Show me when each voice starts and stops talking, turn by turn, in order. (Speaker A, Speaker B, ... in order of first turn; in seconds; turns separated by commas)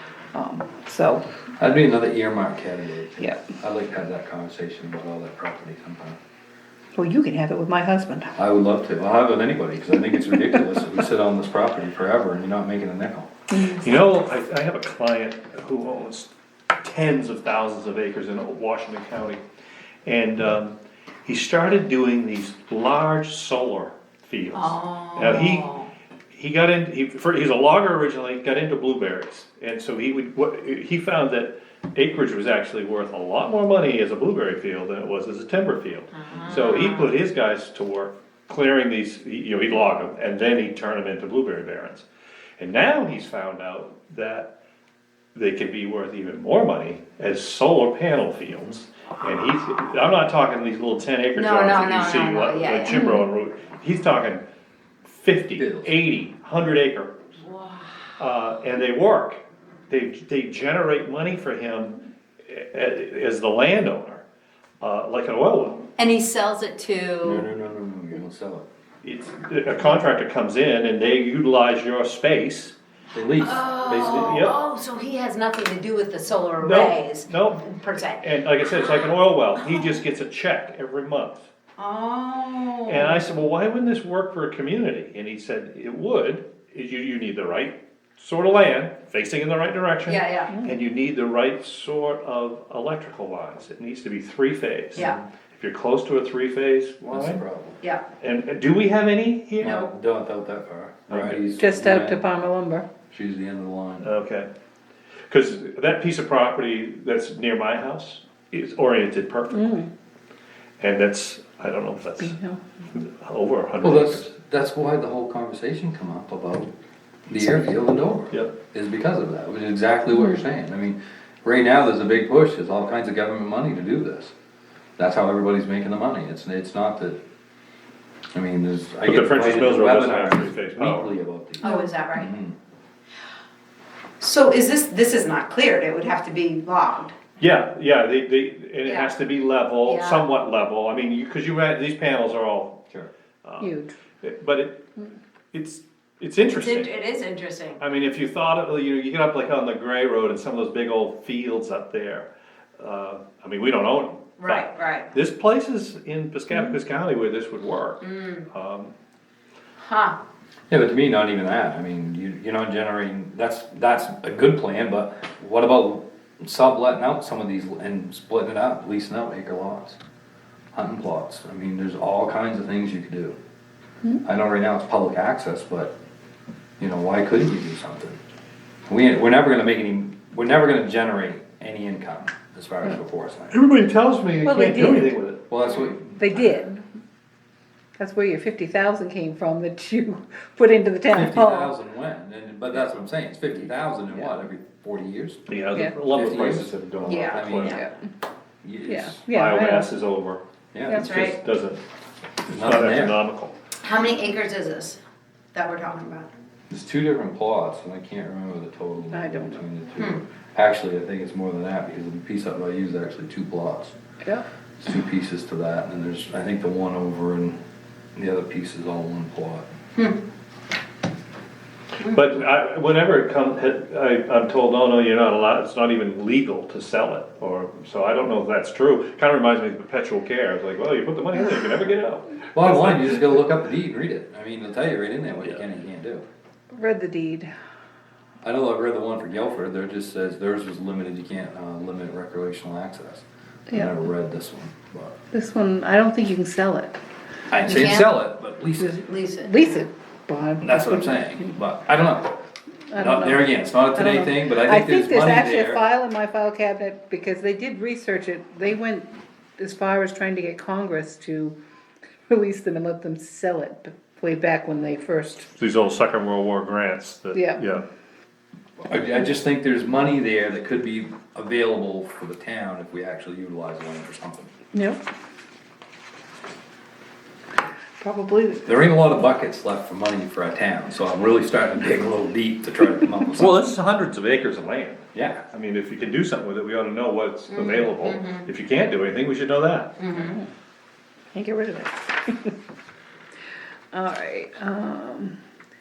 Speaker A: 0.3-1.2, Speaker B: 1.6-6.2, Speaker A: 6.9-8.3, Speaker B: 8.3-13.3, Speaker C: 13.6-19.4, Speaker C: 20.0-25.7, Speaker D: 24.5-25.9, Speaker C: 26.3-42.1, Speaker D: 36.1-37.1, Speaker C: 42.6-44.5, Speaker C: 45.3-54.4, Speaker D: 51.3-53.0, Speaker A: 52.9-53.2, Speaker C: 55.0-57.2, Speaker B: 55.5-55.9, Speaker D: 57.4-57.9, Speaker C: 58.2-64.2, Speaker C: 64.8-65.9, Speaker D: 66.0-67.4, Speaker B: 67.2-68.7, Speaker C: 69.0-72.8, Speaker B: 73.1-73.7, Speaker D: 73.4-78.2, Speaker C: 73.8-74.6, Speaker C: 76.6-81.5, Speaker D: 79.7-80.0, Speaker D: 81.8-83.2, Speaker C: 82.8-97.4, Speaker D: 90.1-90.5, Speaker B: 97.1-97.8, Speaker C: 98.2-99.8, Speaker B: 99.6-102.2, Speaker D: 99.6-99.9, Speaker C: 101.1-101.4, Speaker A: 101.6-102.9, Speaker B: 103.1-104.1, Speaker C: 104.0-104.5, Speaker C: 105.3-109.9, Speaker A: 109.5-109.9, Speaker C: 110.8-112.4, Speaker A: 112.2-112.6, Speaker C: 112.9-114.3, Speaker B: 113.8-116.7, Speaker B: 117.3-124.3, Speaker B: 125.0-127.2, Speaker B: 128.3-132.6, Speaker C: 129.0-131.1, Speaker D: 131.6-132.3, Speaker A: 131.6-131.9, Speaker D: 134.2-137.1, Speaker C: 137.4-142.8, Speaker D: 138.8-139.1, Speaker D: 139.8-140.3, Speaker C: 143.4-144.8, Speaker A: 143.6-143.9, Speaker C: 145.5-147.0, Speaker D: 146.4-147.8, Speaker C: 147.8-158.9, Speaker D: 154.4-155.1, Speaker D: 158.0-158.4, Speaker D: 159.8-160.2, Speaker B: 160.7-170.0, Speaker B: 170.7-173.3, Speaker B: 174.2-175.9, Speaker B: 176.8-178.2, Speaker B: 178.9-183.6, Speaker C: 183.5-185.9, Speaker A: 184.4-185.2, Speaker B: 185.5-186.6, Speaker A: 186.2-186.8, Speaker A: 188.0-191.7, Speaker B: 191.1-195.4, Speaker C: 195.5-197.8, Speaker B: 196.0-197.8, Speaker D: 197.0-197.8, Speaker A: 197.6-197.9, Speaker B: 198.6-199.2, Speaker A: 198.9-199.9, Speaker C: 199.2-201.8, Speaker B: 200.7-201.1, Speaker D: 200.9-201.3, Speaker C: 202.4-203.6, Speaker B: 202.5-203.2, Speaker D: 203.8-205.0, Speaker D: 205.5-206.3, Speaker B: 206.7-213.9, Speaker A: 209.1-209.7, Speaker D: 210.0-210.2, Speaker B: 214.8-217.6, Speaker B: 218.2-219.7, Speaker C: 222.0-233.5, Speaker B: 232.5-236.2, Speaker A: 236.7-237.5, Speaker B: 238.4-245.2, Speaker A: 243.7-243.9, Speaker A: 245.3-247.0, Speaker B: 247.5-249.0, Speaker D: 247.5-248.2, Speaker A: 248.8-251.6, Speaker D: 248.9-249.8, Speaker B: 250.6-252.4, Speaker A: 252.9-261.6, Speaker B: 252.9-255.8, Speaker A: 262.3-265.5, Speaker C: 265.5-267.8, Speaker A: 267.3-267.6, Speaker B: 268.8-274.5, Speaker A: 274.7-275.0, Speaker A: 278.0-278.7, Speaker B: 278.6-283.6, Speaker C: 283.4-290.0, Speaker B: 285.1-285.4, Speaker D: 287.5-288.5, Speaker D: 290.0-290.4, Speaker A: 290.2-290.4, Speaker A: 291.3-292.5, Speaker A: 293.9-295.4